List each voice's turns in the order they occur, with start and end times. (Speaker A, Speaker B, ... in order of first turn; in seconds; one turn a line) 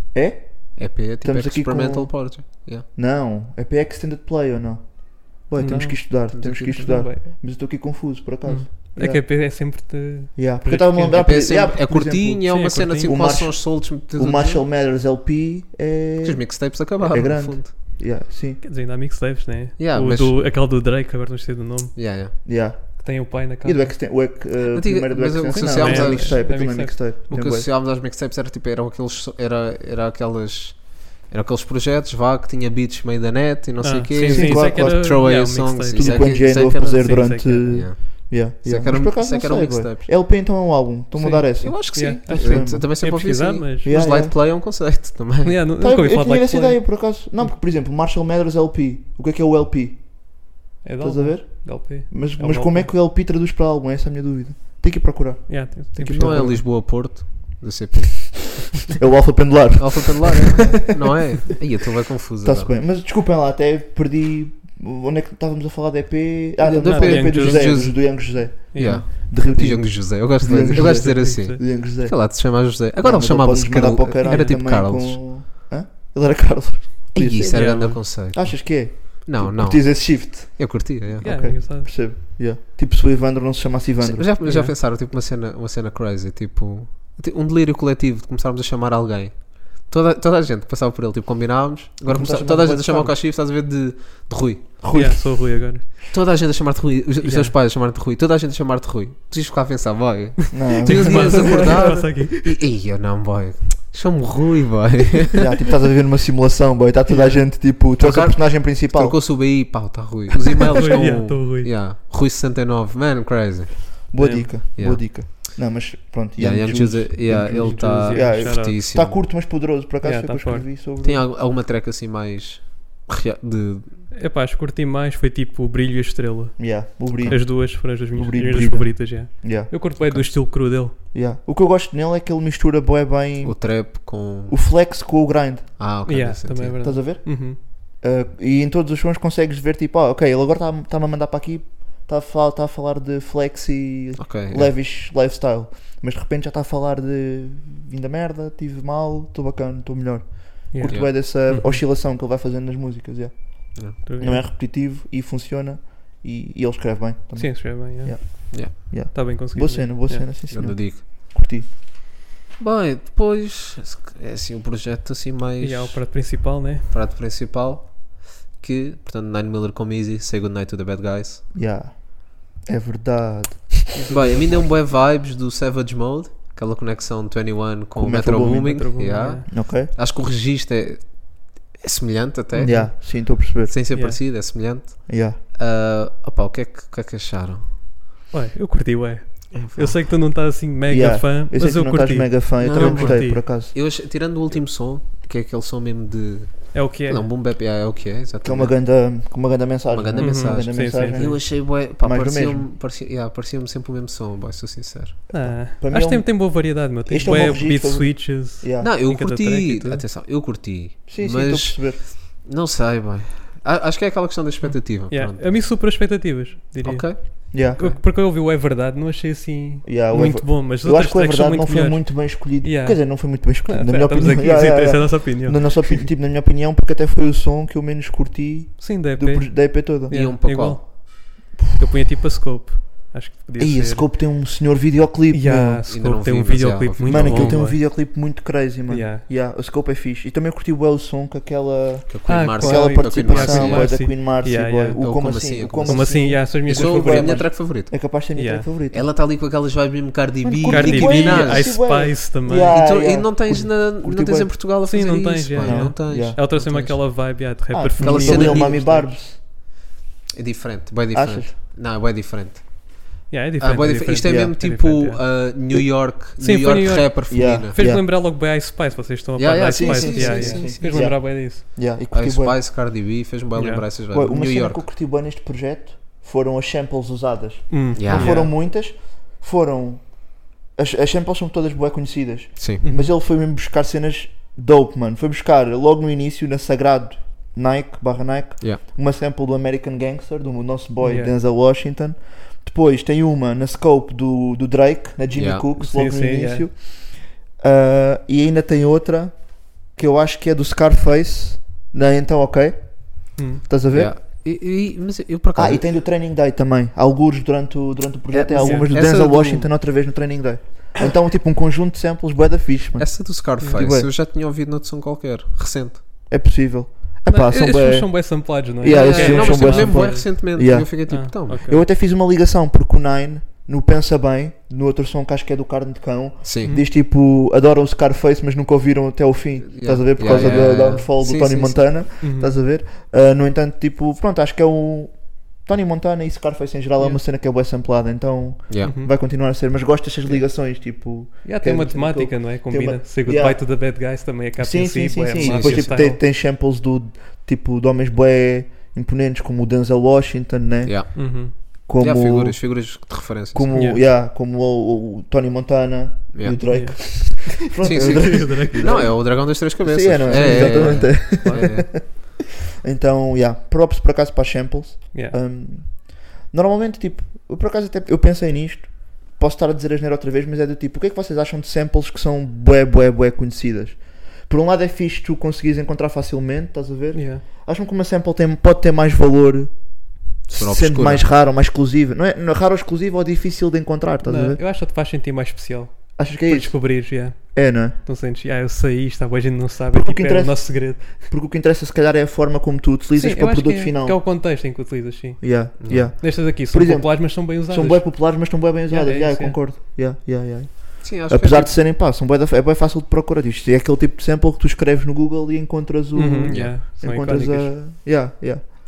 Speaker A: 0.1-2.3
Speaker B: 0.8-2.9
Speaker A: 2.9-9.2
Speaker C: 5.6-7.3
Speaker B: 6.3-6.8
Speaker C: 8.4-11.6
Speaker A: 10.3-18.6
Speaker B: 11.1-14.6
Speaker C: 12.5-13.3
Speaker B: 16.2-17.7
Speaker C: 18.6-24.0
Speaker B: 19.8-20.4
Speaker B: 21.9-22.3
Speaker A: 22.4-27.7
Speaker B: 24.7-26.6
Speaker C: 25.5-27.1
Speaker B: 27.3-40.1
Speaker C: 33.8-37.9
Speaker A: 34.3-43.2
Speaker C: 41.1-44.1
Speaker B: 41.6-45.6
Speaker A: 43.8-44.4
Speaker C: 45.4-47.6
Speaker A: 45.8-56.6
Speaker C: 50.8-52.9
Speaker C: 55.5-56.5
Speaker B: 55.9-58.5
Speaker A: 59.0-60.6
Speaker B: 59.8-62.7
Speaker A: 62.4-84.3
Speaker C: 66.7-68.1
Speaker B: 66.7-75.2
Speaker C: 68.7-69.2
Speaker C: 70.7-71.6
Speaker C: 74.2-74.6
Speaker B: 77.1-81.4
Speaker C: 77.5-78.0
Speaker C: 81.2-82.0
Speaker B: 84.0-94.7
Speaker C: 84.4-84.7
Speaker A: 92.1-93.2
Speaker A: 94.8-95.8
Speaker C: 94.9-96.0
Speaker B: 96.1-105.5
Speaker C: 97.2-97.5
Speaker A: 100.5-102.1
Speaker C: 100.8-102.5
Speaker A: 105.4-109.2
Speaker B: 107.1-114.1
Speaker C: 110.8-111.7
Speaker A: 114.1-121.2
Speaker C: 114.2-114.7
Speaker B: 114.8-115.5
Speaker B: 116.4-119.2
Speaker C: 117.3-118.9
Speaker C: 120.0-120.8
Speaker B: 121.0-124.0
Speaker C: 124.1-130.9
Speaker A: 126.6-135.7
Speaker B: 127.2-127.4
Speaker B: 133.4-134.6
Speaker B: 135.8-136.8
Speaker C: 136.0-137.6
Speaker A: 136.8-161.7
Speaker B: 144.2-144.7
Speaker C: 150.7-151.8
Speaker C: 154.0-154.4
Speaker C: 157.3-160.5
Speaker B: 160.5-161.0
Speaker B: 162.6-166.3
Speaker C: 165.6-166.9
Speaker B: 166.9-171.4
Speaker A: 171.5-174.0
Speaker C: 173.9-174.8
Speaker B: 174.1-187.7
Speaker A: 177.9-179.9
Speaker C: 178.4-179.5
Speaker C: 182.5-183.4
Speaker A: 182.6-183.9
Speaker A: 185.1-185.4
Speaker C: 188.3-193.4
Speaker B: 189.5-190.0
Speaker A: 190.9-193.7
Speaker B: 192.6-198.8
Speaker C: 196.7-197.3
Speaker A: 198.4-202.7
Speaker B: 199.9-205.2
Speaker C: 200.2-201.3
Speaker A: 205.3-208.9
Speaker C: 205.3-210.1
Speaker B: 208.8-215.5
Speaker A: 211.1-212.0
Speaker C: 214.6-226.1
Speaker B: 216.8-217.9
Speaker A: 217.5-218.0
Speaker A: 219.8-230.1
Speaker C: 228.8-234.4
Speaker B: 230.1-230.8
Speaker A: 233.6-236.1
Speaker C: 235.3-238.2
Speaker B: 235.9-237.7
Speaker A: 237.0-249.0
Speaker C: 238.9-239.2
Speaker B: 242.1-243.9
Speaker C: 242.3-245.2
Speaker B: 245.0-247.9
Speaker C: 245.8-247.6
Speaker C: 248.3-248.7
Speaker B: 248.9-251.8
Speaker A: 250.4-254.9
Speaker C: 250.7-252.9
Speaker B: 252.5-257.4
Speaker C: 254.8-259.1
Speaker A: 255.6-256.4
Speaker A: 257.7-259.4
Speaker B: 258.0-259.4
Speaker B: 260.3-267.8
Speaker A: 261.1-261.5
Speaker C: 263.3-265.6
Speaker A: 264.2-264.5
Speaker C: 266.4-271.6
Speaker A: 267.3-268.1
Speaker B: 269.4-271.2
Speaker A: 269.7-272.6
Speaker B: 272.1-274.8
Speaker C: 273.6-273.8
Speaker A: 274.1-304.1
Speaker C: 277.7-278.5
Speaker B: 277.9-278.4
Speaker B: 282.6-282.8
Speaker C: 282.8-283.1
Speaker C: 291.0-291.3
Speaker B: 295.3-295.6
Speaker C: 295.8-296.7
Speaker C: 303.4-303.6
Speaker B: 303.9-305.9
Speaker A: 305.5-314.1
Speaker B: 308.3-309.7
Speaker C: 308.6-308.9
Speaker B: 313.0-316.0
Speaker C: 313.6-313.9
Speaker A: 316.3-362.3
Speaker C: 317.3-321.8
Speaker B: 318.9-321.6
Speaker B: 326.4-326.7
Speaker B: 329.6-331.8
Speaker C: 330.3-330.6
Speaker C: 332.2-332.5
Speaker B: 338.7-338.9
Speaker C: 338.8-339.1
Speaker C: 340.2-340.5
Speaker C: 341.4-346.2
Speaker B: 345.4-346.0
Speaker B: 350.8-353.8
Speaker C: 351.1-351.5
Speaker C: 353.7-354.0
Speaker B: 356.3-357.2
Speaker C: 356.5-359.2
Speaker B: 357.8-361.9
Speaker C: 360.3-361.9
Speaker A: 362.8-384.6
Speaker C: 365.1-365.4
Speaker C: 377.1-377.4
Speaker B: 380.5-381.3
Speaker C: 384.2-391.3
Speaker A: 386.2-388.0
Speaker A: 389.9-394.2
Speaker C: 393.1-399.7
Speaker A: 395.4-408.6
Speaker B: 395.8-396.1
Speaker B: 401.0-401.7
Speaker C: 406.1-407.8
Speaker B: 406.5-406.8